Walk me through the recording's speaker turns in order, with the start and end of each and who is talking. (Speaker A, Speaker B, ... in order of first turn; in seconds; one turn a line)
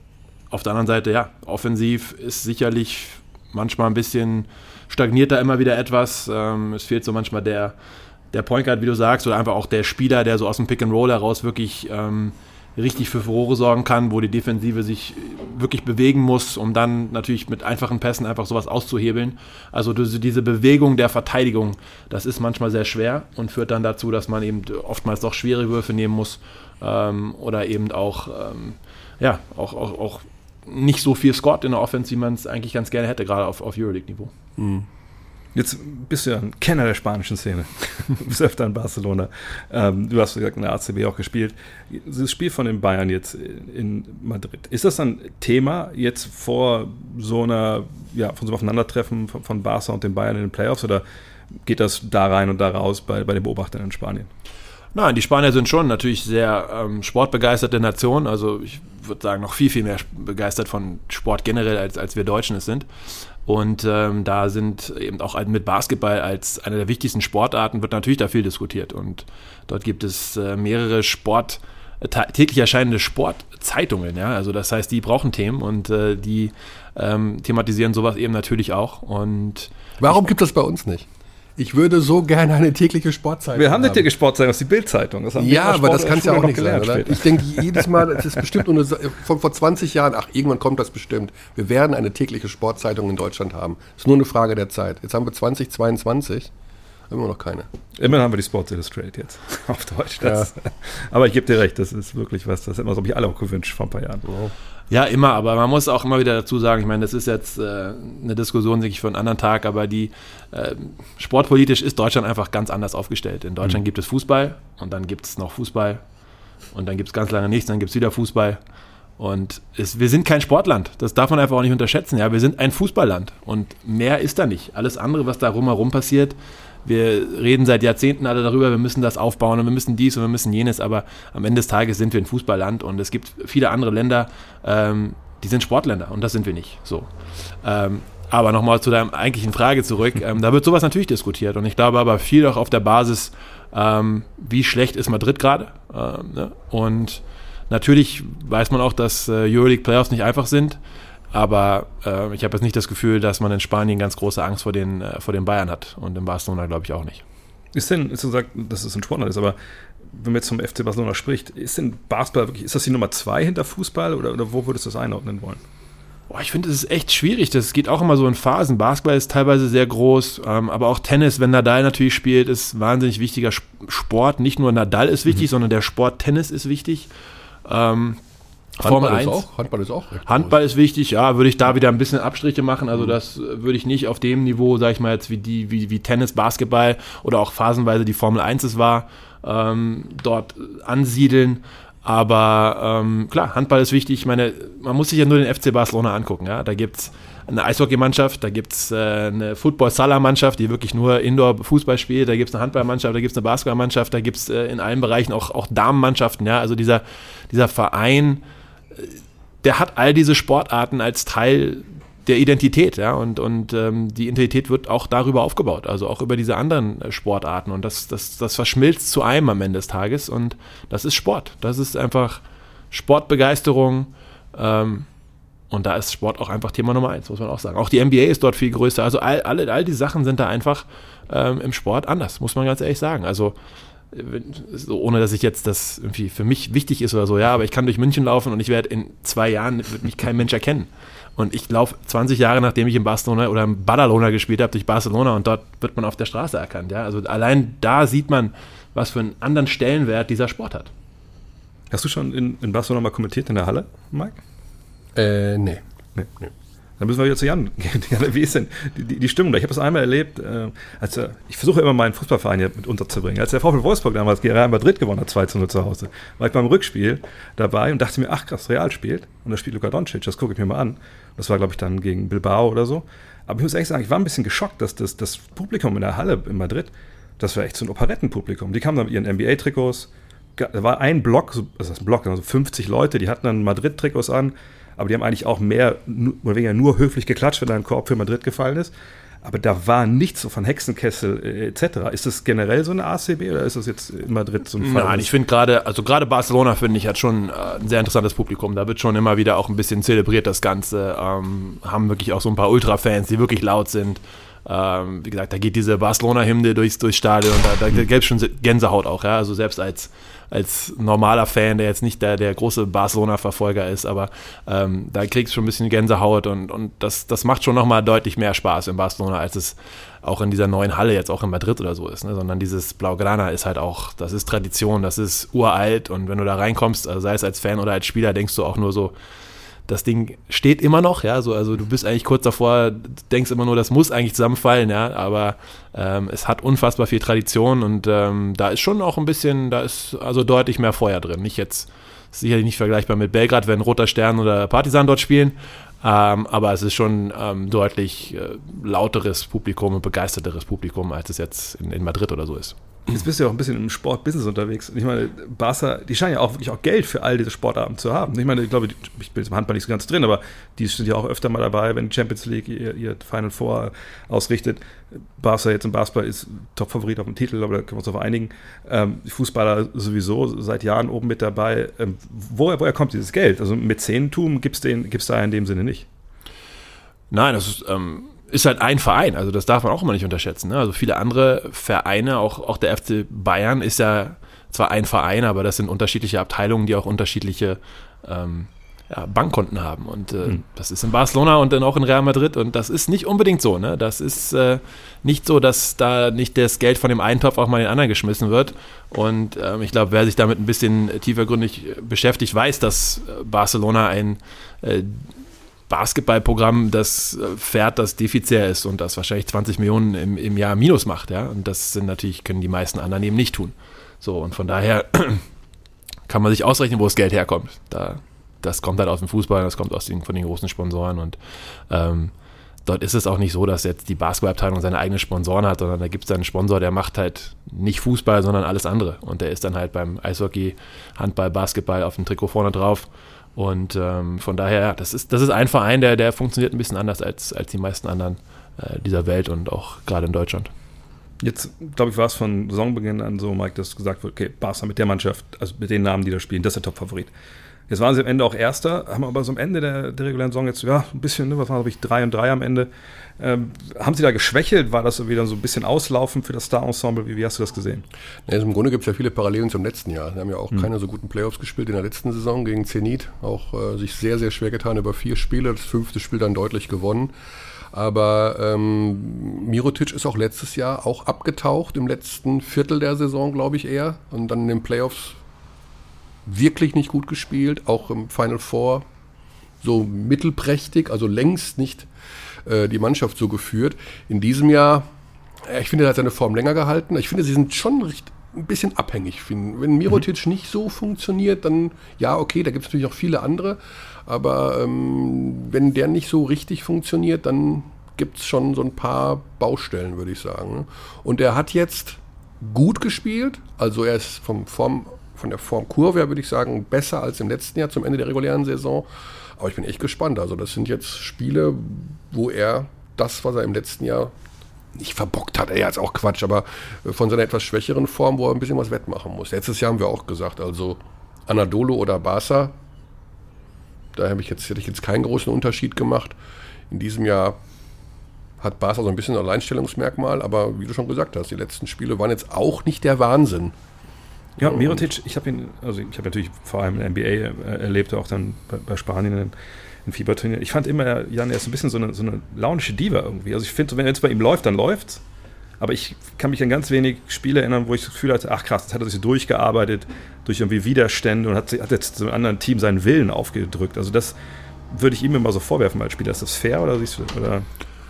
Speaker A: 0.5-7.7
Speaker A: 8.3-34.3
Speaker B: 34.6-34.9
Speaker C: 35.5-51.0
Speaker C: 51.6-54.3
Speaker A: 54.9-62.9
Speaker A: 63.5-79.7
Speaker B: 80.0-84.1
Speaker C: 83.6-88.3
Speaker B: 85.4-96.5
Speaker B: 97.1-97.7
Speaker C: 98.0-104.3
Speaker B: 100.2-100.5
Speaker A: 104.9-116.0
Speaker A: 116.7-118.6
Speaker A: 119.2-137.1
Speaker A: 137.6-150.8
Speaker A: 151.3-157.2
Speaker C: 157.7-159.6
Speaker C: 160.1-165.6
Speaker A: 166.3-177.1
Speaker A: 177.7-178.2
Speaker A: 178.8-179.5
Speaker B: 178.8-180.6
Speaker A: 180.3-208.4
Speaker A: 208.9-225.1
Speaker A: 225.7-233.6
Speaker A: 234.1-250.9
Speaker C: 251.9-254.4
Speaker B: 255.2-255.8
Speaker C: 257.0-288.9
Speaker C: 289.4-295.3
Speaker A: 294.8-329.1
Speaker A: 329.9-352.8
Speaker C: 353.1-376.1
Speaker A: 377.3-405.3
Speaker A: 405.9-415.4
Speaker A: 416.3-422.3
Speaker A: 422.9-440.7
Speaker C: 441.4-447.3
Speaker C: 447.9-458.1
Speaker B: 458.5-467.3
Speaker B: 467.9-475.4
Speaker B: 476.5-479.1
Speaker B: 479.8-482.1
Speaker B: 482.7-485.1
Speaker B: 485.6-514.3
Speaker B: 515.0-522.8
Speaker B: 524.1-526.4
Speaker B: 526.9-527.6
Speaker B: 528.6-533.7
Speaker C: 534.6-539.5
Speaker B: 534.6-535.1
Speaker C: 540.0-545.2
Speaker C: 545.8-554.4
Speaker C: 554.9-557.7